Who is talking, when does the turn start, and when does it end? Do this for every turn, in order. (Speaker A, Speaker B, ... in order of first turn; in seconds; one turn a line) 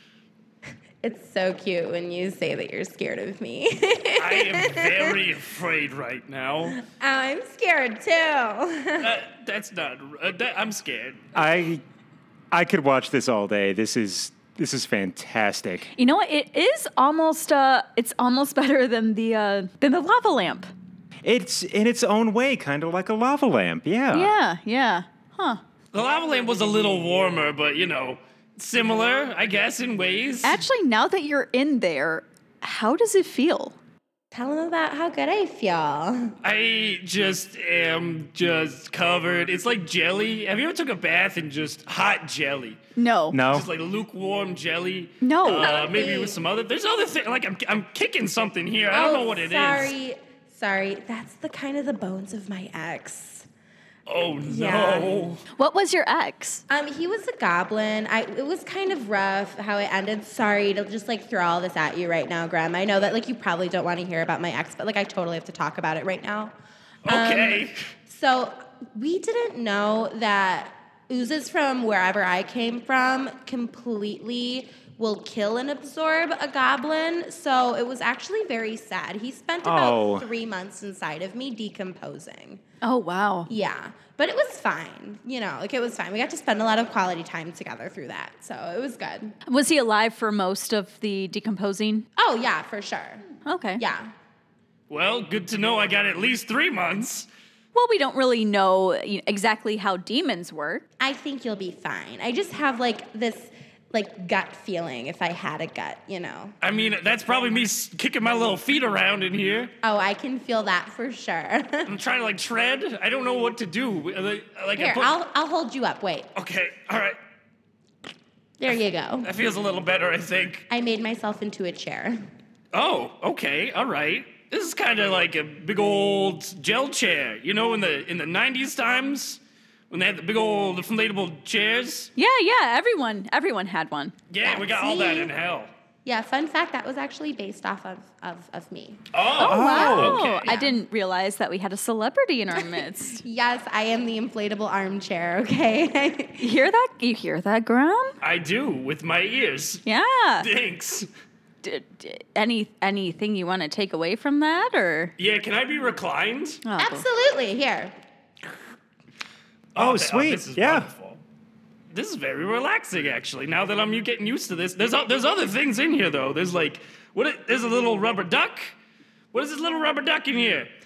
Speaker A: 1.0-5.2
Speaker B: 4.2-6.8
Speaker A: 6.7-9.2
Speaker B: 9.0-11.3
Speaker C: 11.3-11.8
Speaker C: 12.5-15.9
Speaker D: 15.9-20.7
Speaker C: 21.2-24.3
Speaker D: 24.1-25.6
Speaker B: 25.9-30.6
Speaker D: 30.4-33.8
Speaker A: 34.3-36.3
Speaker B: 36.4-42.8
Speaker D: 43.0-43.4
Speaker C: 43.3-43.7
Speaker B: 43.5-49.9
Speaker D: 45.2-45.7
Speaker A: 45.5-46.4
Speaker A: 48.9-53.5
Speaker B: 54.1-55.4
Speaker A: 54.4-55.3
Speaker D: 55.5-56.6
Speaker A: 56.7-66.5
Speaker B: 67.0-67.8
Speaker A: 67.0-82.6
Speaker C: 79.6-80.3
Speaker D: 82.8-83.5
Speaker A: 83.5-89.3
Speaker D: 89.5-92.0
Speaker A: 92.2-93.2
Speaker D: 93.4-93.8
Speaker A: 93.8-94.1
Speaker B: 94.9-97.3
Speaker D: 97.7-100.8
Speaker A: 101.0-106.5
Speaker B: 106.6-109.7
Speaker A: 109.8-111.9
Speaker B: 111.9-115.1
Speaker A: 114.8-116.3
Speaker B: 116.3-117.2
Speaker A: 118.6-119.3
Speaker B: 119.2-120.6
Speaker A: 120.7-122.2
Speaker B: 122.7-132.1
Speaker D: 132.2-134.1
Speaker B: 134.3-135.7
Speaker A: 134.4-135.3
Speaker A: 136.0-139.0
Speaker B: 139.1-140.6
Speaker D: 139.4-143.2
Speaker C: 139.4-140.2
Speaker A: 140.4-140.8
Speaker A: 142.6-146.4
Speaker D: 146.4-148.2
Speaker B: 148.2-149.8
Speaker D: 149.8-150.5
Speaker B: 150.4-151.1
Speaker D: 151.6-155.1
Speaker B: 155.2-156.6
Speaker D: 156.6-157.0
Speaker A: 156.8-157.9
Speaker B: 159.7-161.2
Speaker C: 159.8-160.9
Speaker B: 161.9-168.7
Speaker B: 169.3-170.7